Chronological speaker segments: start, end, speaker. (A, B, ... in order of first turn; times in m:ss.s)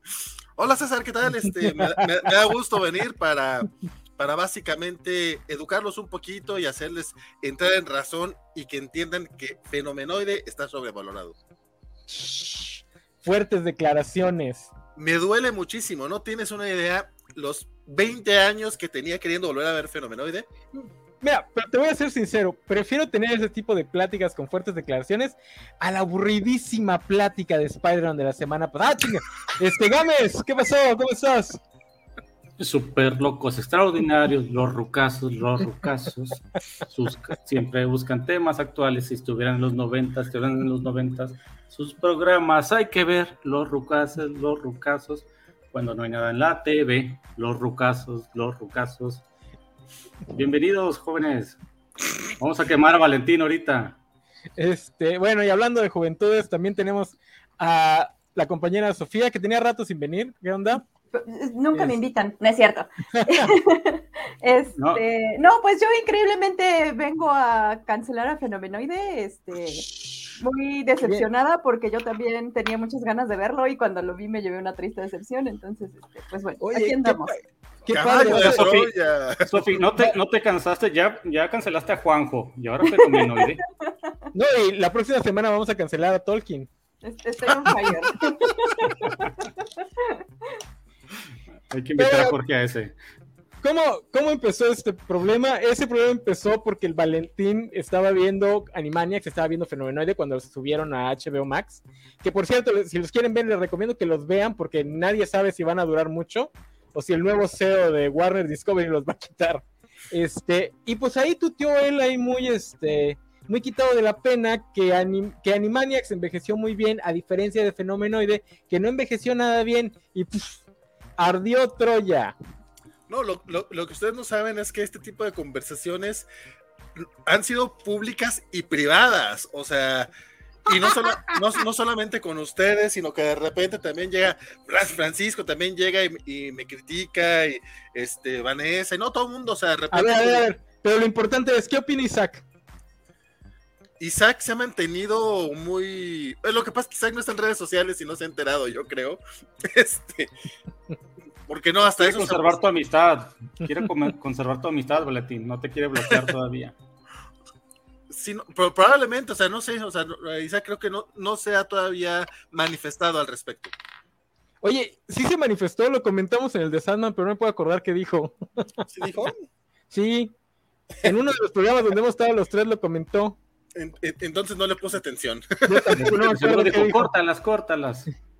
0:00.6-0:11.4 A
0:01.6-0:02.0 B
0:12.1-0:14.7 B
0:15.0-0:20.5 A
0:21.2-0:31.6 B
0:32.6-0:49.2 C
0:50.3-0:51.6 C
0:52.2-0:54.0 C
0:54.6-1:00.8 B
1:01.1-1:17.4 D
1:03.1-1:03.5 B
1:04.8-1:05.0 C
1:16.6-1:17.3 B
1:17.8-1:18.7 B
1:17.9-1:19.8 A
1:18.2-1:23.6 C
1:22.8-1:24.1 D
1:24.3-1:26.7 B
1:27.0-1:29.4 D
1:27.8-1:28.3 B
1:31.7-1:32.9 C
1:32.0-1:32.3 B
1:33.6-2:00.6 B
2:01.2-2:02.3 B
2:03.1-2:06.3 A
2:07.0-2:10.1 A
2:10.6-2:20.5 A
2:19.9-2:22.4 B
2:24.0-2:30.3 A
2:31.5-2:32.6 A
2:31.9-2:36.7 C
2:38.1-2:43.7 A
2:44.6-2:48.8 B
2:48.9-2:49.4 A
2:49.9-2:50.3 B
2:51.0-2:53.4 B
2:53.7-2:56.1 A
2:55.6-2:57.1 B
2:55.9-2:58.1 C